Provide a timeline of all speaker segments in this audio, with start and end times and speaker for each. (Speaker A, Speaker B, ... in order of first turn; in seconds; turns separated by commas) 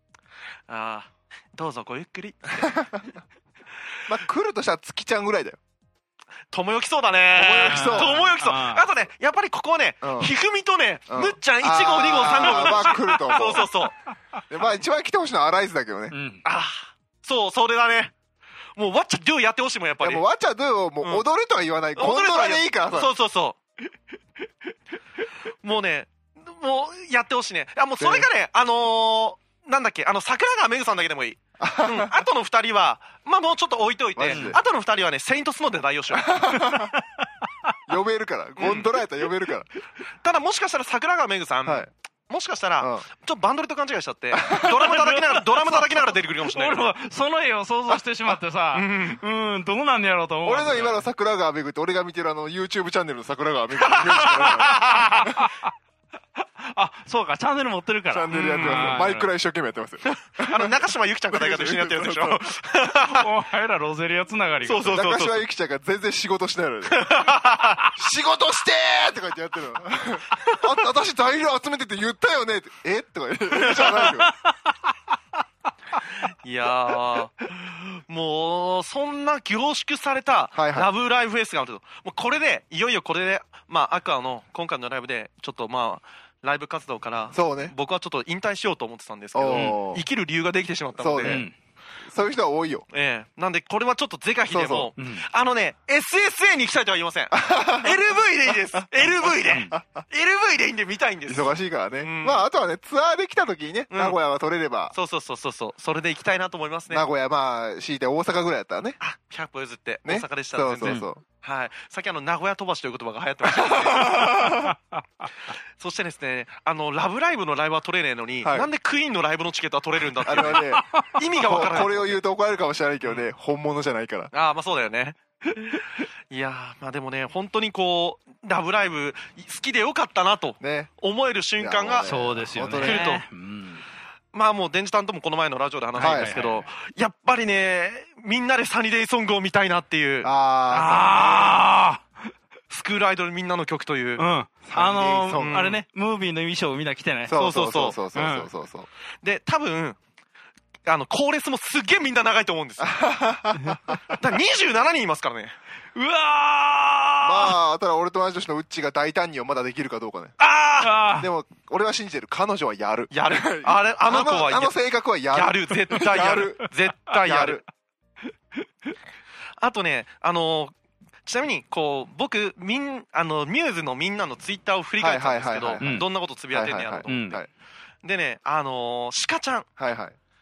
Speaker A: 0.7-2.9, Speaker B: 2.6-3.1, Speaker B: 4.1-5.6, Speaker A: 6.5-13.9, Speaker B: 7.3-8.3, Speaker C: 7.6-8.8, Speaker B: 10.0-10.3, Speaker B: 11.1-13.7, Speaker C: 12.4-13.3, Speaker B: 14.5-16.1, Speaker C: 16.1-16.4, Speaker A: 16.4-18.1, Speaker A: 18.8-20.2, Speaker B: 20.0-23.1, Speaker A: 22.0-23.6, Speaker A: 25.6-36.5, Speaker B: 28.0-28.3, Speaker B: 31.6-32.2, Speaker B: 34.2-34.6, Speaker C: 34.3-34.6, Speaker B: 36.1-37.0, Speaker C: 36.6-37.2, Speaker B: 37.9-39.7, Speaker A: 38.6-39.0, Speaker A: 40.2-46.9, Speaker B: 42.8-43.1, Speaker B: 44.4-44.9, Speaker C: 44.8-51.0, Speaker A: 48.7-49.2, Speaker B: 50.4-55.5, Speaker A: 53.8-55.4, Speaker C: 55.2-55.5, Speaker C: 56.6-59.3, Speaker B: 58.1-62.5, Speaker A: 58.3-59.0, Speaker A: 60.3-63.3, Speaker C: 63.0-65.0, Speaker A: 64.7-65.4, Speaker B: 64.9-67.3, Speaker A: 66.9-67.9, Speaker B: 67.9-74.3, Speaker C: 73.7-74.3, Speaker A: 76.2-91.5, Speaker B: 80.5-80.9, Speaker B: 87.3-87.7, Speaker B: 89.3-90.0, Speaker C: 89.5-89.8, Speaker B: 91.0-91.5, Speaker C: 91.2-91.5, Speaker B: 92.1-92.9, Speaker A: 92.9-102.5, Speaker B: 94.5-94.9, Speaker C: 95.0-95.2, Speaker B: 97.3-97.9, Speaker B: 101.3-105.0, Speaker A: 103.9-104.2, Speaker A: 104.9-107.0, Speaker B: 106.9-109.0, Speaker A: 109.0-114.5, Speaker B: 110.0-111.2, Speaker B: 113.5-114.8, Speaker A: 115.8-122.2, Speaker B: 118.4-118.7, Speaker B: 120.2-124.3, Speaker A: 124.3-132.1, Speaker B: 130.6-130.9, Speaker B: 131.6-133.2, Speaker C: 132.0-133.8, Speaker A: 132.8-133.2, Speaker A: 134.3-140.3, Speaker C: 135.9-136.7, Speaker B: 136.0-136.3, Speaker B: 140.2-141.6, Speaker C: 140.7-142.1, Speaker A: 142.7-144.2, Speaker C: 144.2-147.4, Speaker B: 144.7-145.7, Speaker A: 145.4-145.8, Speaker B: 147.3-148.9, Speaker A: 147.3-148.0, Speaker C: 148.1-148.5, Speaker A: 149.2-150.0, Speaker A: 150.9-153.0, Speaker B: 152.8-154.2, Speaker A: 154.1-155.5, Speaker C: 155.9-157.6, Speaker B: 157.2-160.3, Speaker A: 160.4-161.0, Speaker C: 160.8-161.3, Speaker B: 161.2-166.7, Speaker A: 163.1-164.8, Speaker A: 165.3-167.6, Speaker B: 167.2-167.6, Speaker A: 169.6-170.7, Speaker A: 171.3-177.4, Speaker B: 175.0-177.5, Speaker C: 175.8-176.1, Speaker C: 177.1-177.4, Speaker A: 178.0-179.7, Speaker B: 179.8-180.2